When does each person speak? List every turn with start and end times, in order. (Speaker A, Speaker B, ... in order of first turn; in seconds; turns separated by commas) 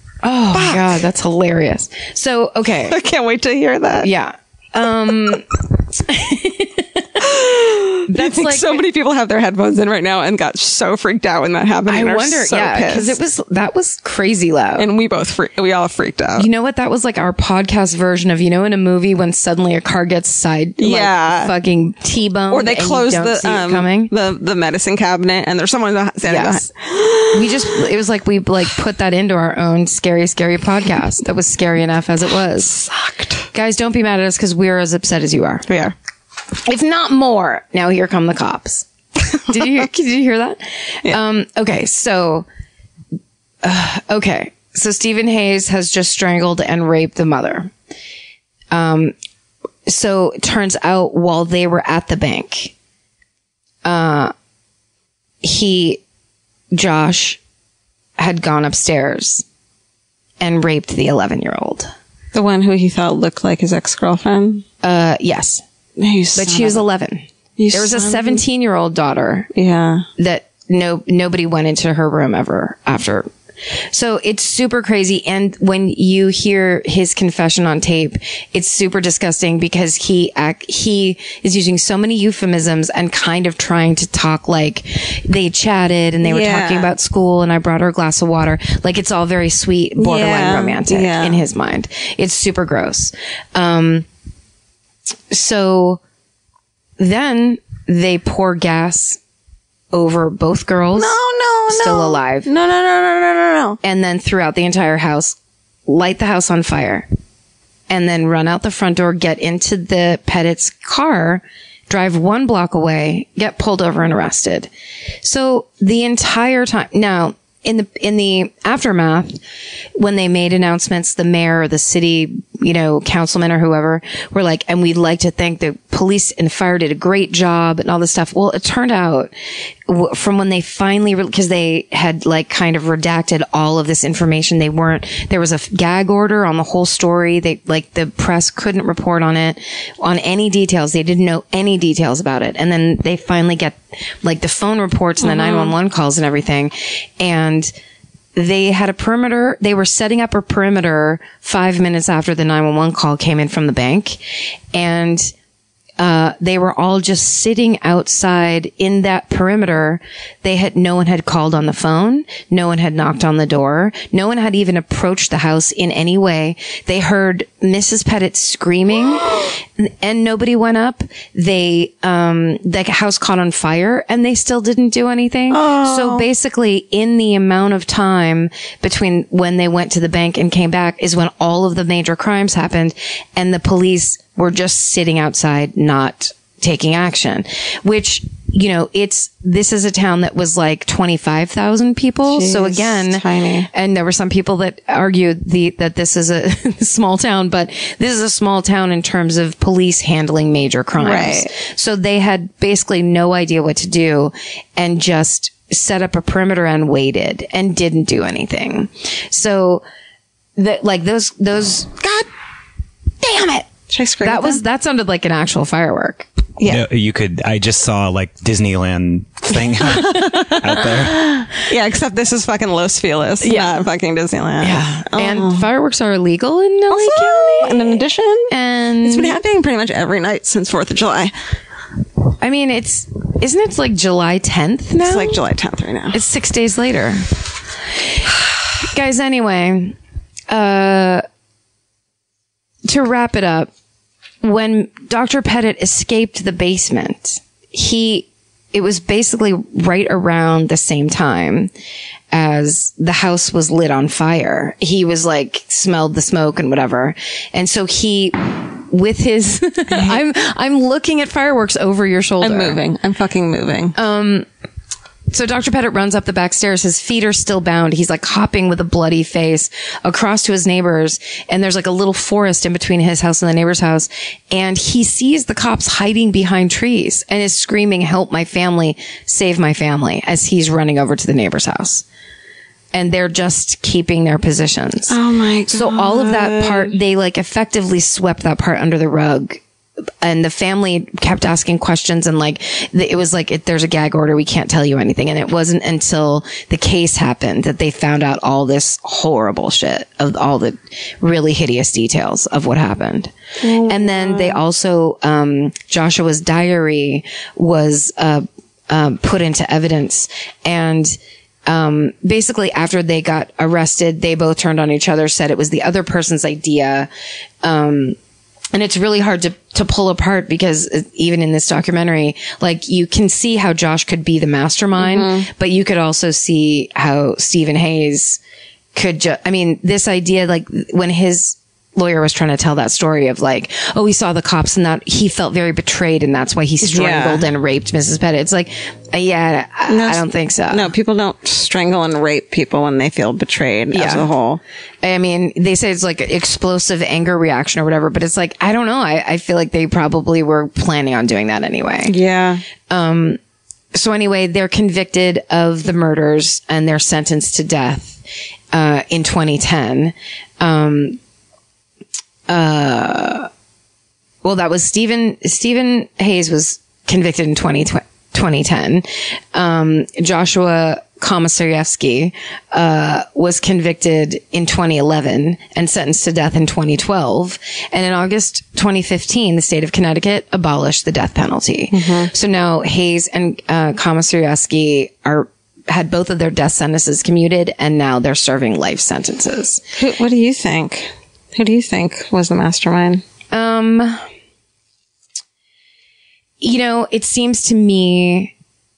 Speaker A: 0.2-3.0, Speaker B: 0.5-1.0, Speaker B: 2.9-4.1, Speaker A: 4.0-7.1, Speaker B: 7.2-13.2, Speaker A: 8.1-8.8, Speaker A: 11.9-14.9, Speaker B: 14.8-16.5, Speaker A: 16.4-24.1, Speaker B: 20.8-21.5, Speaker B: 22.5-27.8, Speaker A: 26.2-26.7, Speaker A: 27.3-32.9, Speaker B: 32.7-33.5, Speaker A: 33.5-35.7, Speaker B: 35.7-36.0, Speaker A: 36.7-38.9, Speaker A: 39.5-42.5, Speaker A: 43.6-47.7, Speaker A: 48.7-49.1, Speaker A: 49.9-52.7, Speaker A: 53.9-54.3, Speaker A: 55.4-56.0, Speaker A: 56.7-57.4, Speaker A: 58.2-59.5, Speaker A: 60.4-61.9, Speaker B: 62.3-64.7, Speaker A: 64.8-65.6, Speaker B: 66.0-66.8, Speaker A: 66.3-69.5, Speaker B: 67.6-68.4, Speaker B: 69.5-70.1, Speaker A: 70.2-73.3, Speaker A: 73.9-94.1, Speaker B: 86.2-86.9, Speaker B: 90.0-91.4, Speaker A: 95.3-96.0, Speaker A: 97.0-99.2, Speaker A: 99.9-101.2, Speaker B: 101.0-103.8, Speaker A: 101.7-102.5, Speaker A: 103.8-107.1, Speaker A: 107.9-114.7, Speaker A: 115.2-119.4, Speaker A: 120.0-129.3, Speaker A: 129.9-147.7, Speaker B: 145.2-145.7, Speaker A: 148.3-154.2, Speaker A: 154.7-155.3, Speaker A: 156.0-209.8, Speaker B: 175.5-176.3, Speaker B: 192.3-193.7, Speaker B: 201.0-201.5, Speaker A: 210.6-212.0, Speaker A: 213.2-213.7, Speaker B: 213.9-214.6, Speaker A: 214.2-216.3, Speaker B: 216.6-216.8, Speaker C: 216.6-221.3, Speaker B: 219.5-225.7, Speaker A: 223.4-223.8, Speaker A: 224.6-229.4, Speaker B: 226.9-231.3, Speaker A: 232.4-235.4, Speaker B: 235.0-236.2, Speaker A: 236.1-237.3, Speaker A: 238.8-240.0, Speaker A: 240.5-241.2, Speaker A: 242.9-243.7, Speaker A: 244.4-251.7, Speaker A: 252.3-262.8, Speaker B: 259.9-260.2, Speaker B: 262.4-264.0, Speaker A: 263.9-264.5, Speaker A: 265.3-282.0, Speaker A: 282.9-285.2, Speaker B: 285.1-286.9, Speaker A: 285.7-289.6, Speaker A: 290.2-303.3, Speaker B: 303.6-304.6, Speaker A: 303.9-311.1, Speaker A: 311.7-317.1, Speaker A: 317.6-318.2, Speaker A: 318.7-328.4, Speaker B: 325.0-325.5, Speaker A: 328.9-340.9, Speaker B: 336.8-337.5, Speaker B: 339.9-344.6, Speaker A: 343.9-344.3, Speaker A: 345.0-352.1, Speaker B: 352.1-352.6, Speaker A: 352.9-353.4, Speaker A: 353.9-358.2, Speaker A: 358.7-361.2, Speaker A: 362.5-363.5, Speaker A: 364.4-389.8, Speaker B: 381.9-382.3, Speaker B: 389.9-393.2, Speaker A: 393.5-394.2, Speaker A: 396.6-398.5